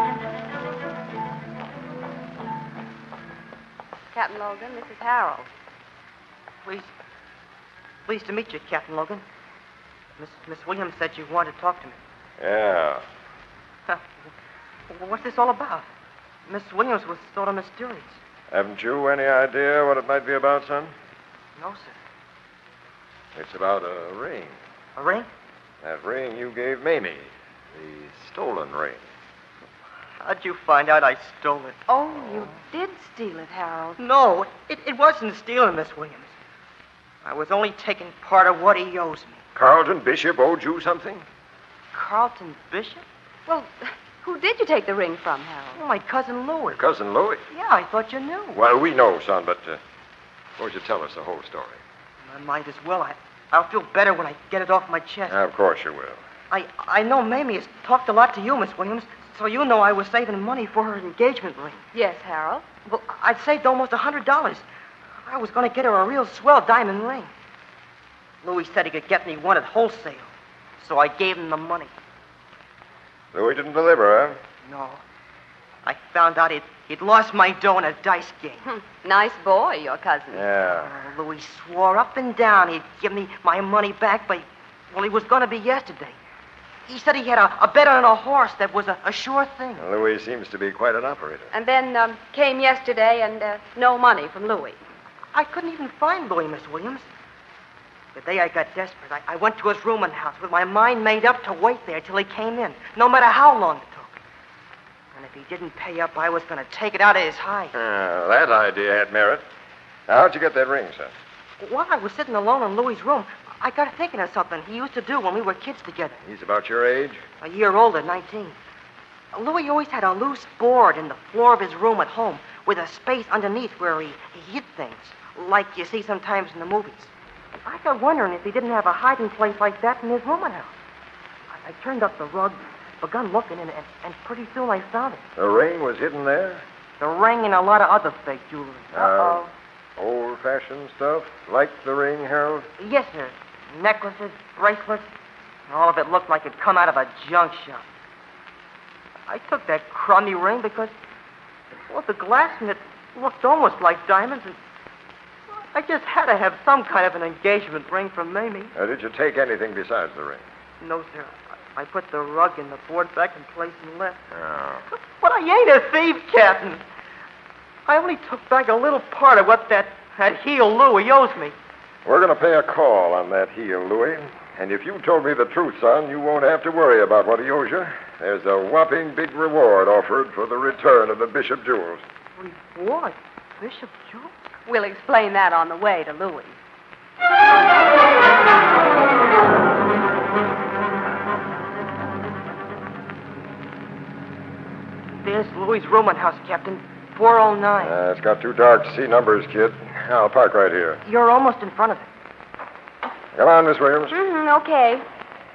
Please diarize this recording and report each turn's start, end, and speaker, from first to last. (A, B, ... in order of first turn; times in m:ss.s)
0:04.1-0:05.5 A
0:06.6-0:06.9 B
0:08.1-0:09.2 B
0:10.2-0:12.0 B
0:12.4-0:13.0 C
0:14.9-0:15.8 B
0:16.5-0:18.2 B
0:18.5-0:20.9 C
0:21.6-0:21.9 B
0:23.3-0:24.5 C
0:25.0-0:25.3 B
0:25.8-0:29.0 C
0:30.2-0:31.8 B
0:31.9-0:34.0 A
0:34.0-0:36.3 B
0:37.2-0:39.4 B
0:39.5-0:41.2 C
0:41.9-0:43.0 B
0:43.5-0:45.8 A
0:45.8-0:46.8 B
0:46.7-0:47.4 C
0:47.5-0:48.6 B
0:48.5-0:49.8 C
0:50.6-0:51.8 C
0:52.2-0:55.4 B
0:55.3-0:56.2 C
0:56.5-1:01.8 B
1:01.9-1:02.6 A
1:02.8-1:04.6 B
1:05.2-1:07.3 B
1:08.4-1:11.9 B
1:13.3-1:14.4 C
1:14.6-1:15.0 B
1:15.8-1:18.6 B
1:18.6-1:20.4 A
1:20.3-1:20.9 C
1:20.6-1:26.2 B
1:26.9-1:29.8 B
1:29.8-1:31.5 C
1:31.5-1:34.8 A
1:35.3-1:37.0 B
1:38.1-1:44.2 B
1:45.1-1:47.7 B
1:47.7-1:49.4 C
1:50.1-1:51.1 C
1:51.6-1:56.2 B
1:56.2-1:57.2 C
1:57.4-1:58.6 B
1:59.3-2:07.1 B
2:07.6-2:10.7 B
2:11.5-2:15.2 B
2:15.4-2:16.6 C
2:17.0-2:19.5 B
2:18.9-2:22.7 C
2:22.8-2:25.1 B
2:25.7-2:27.8 B
2:29.3-2:30.9 B
2:31.9-2:34.6 B
2:35.5-2:38.7 B
2:38.8-2:40.4 C
2:40.8-2:44.2 B
2:44.3-2:44.8 C
2:44.9-2:46.8 B
2:47.8-2:51.5 B
2:52.0-3:02.0 C
3:02.4-3:04.3 B
3:04.7-3:06.6 A
3:15.2-3:17.9 B
3:17.8-3:21.0 C
3:21.0-3:22.0 B
3:23.3-3:24.1 C
3:24.1-3:25.0 A